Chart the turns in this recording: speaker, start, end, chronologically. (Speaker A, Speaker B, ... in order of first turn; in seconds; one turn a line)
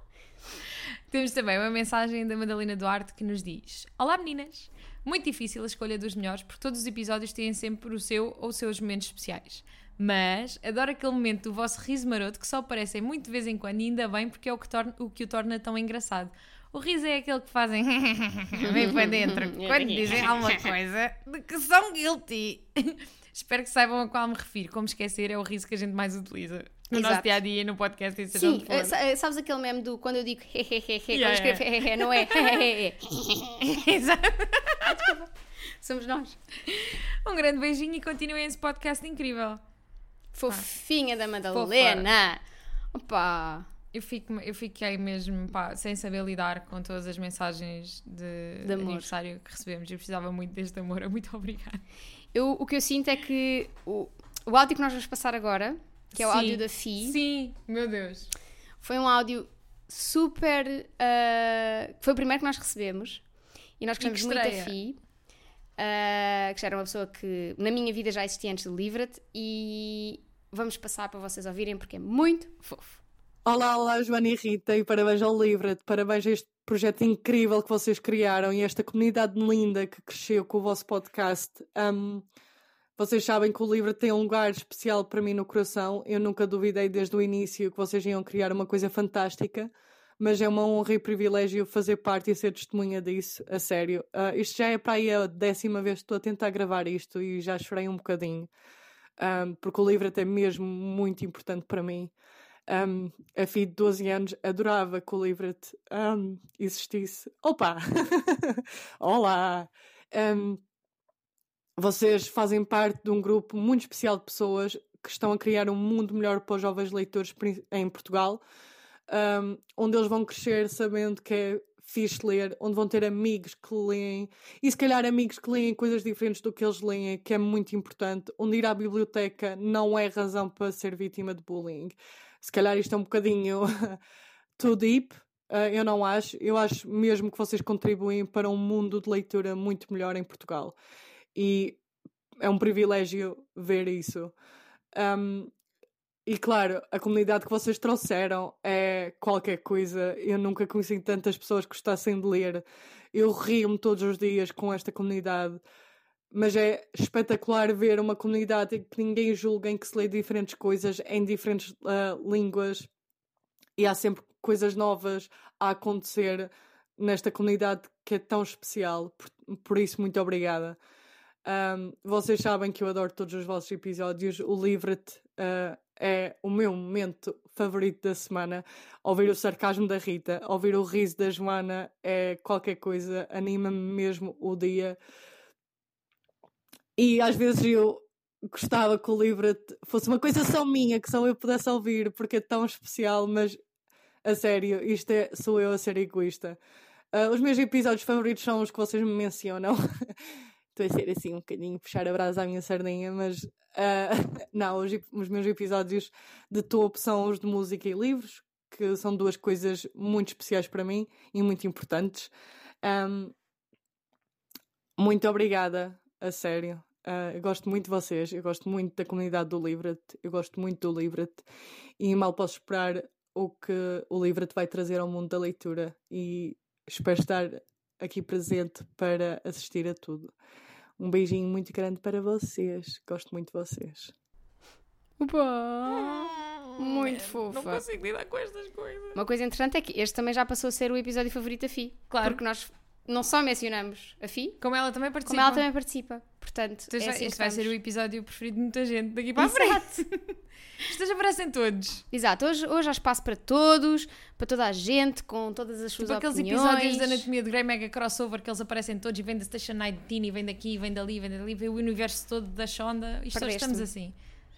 Speaker A: 1.1-29.0
Speaker B: 18.6-20.7
Speaker B: 26.9-27.3
Speaker B: 28.3-33.6
Speaker A: 31.1-32.7
Speaker A: 33.6-35.1
Speaker B: 34.9-35.2
Speaker B: 35.8-36.4
Speaker A: 36.7-39.6
Speaker B: 40.4-42.4
Speaker A: 41.5-42.1
Speaker B: 42.9-43.7
Speaker A: 43.9-51.8
Speaker B: 48.6-49.1
Speaker B: 52.3-57.2
Speaker A: 56.1-58.3
Speaker B: 58.8-63.2
Speaker B: 63.8-65.0
Speaker A: 64.0-64.7
Speaker B: 65.8-73.0
Speaker C: 73.5-82.3
Speaker C: 83.0-98.5
Speaker C: 99.2-102.1
Speaker C: 102.7-110.6
Speaker C: 111.8-118.4
Speaker C: 119.1-134.0
Speaker C: 134.6-140.8
Speaker C: 141.3-141.8
Speaker C: 142.4-144.3
Speaker C: 144.9-145.5
Speaker C: 146.3-155.6
Speaker C: 156.3-162.9
Speaker C: 163.8-170.8
Speaker C: 171.4-185.0
Speaker C: 187.0-193.6
Speaker C: 194.2-196.6
Speaker C: 197.1-199.8
Speaker C: 200.8-212.3
Speaker C: 212.8-213.3
Speaker C: 215.0-221.4
Speaker C: 222.0-230.3
Speaker C: 231.0-234.1
Speaker B: 235.2-237.8
Speaker A: 235.9-239.2
Speaker B: 239.2-244.6
Speaker A: 242.1-242.4
Speaker A: 244.6-245.7
Speaker B: 245.2-247.7
Speaker A: 246.9-250.2
Speaker B: 249.4-250.1
Speaker A: 250.8-252.0
Speaker B: 252.1-257.3
Speaker A: 256.0-264.1
Speaker B: 263.3-263.9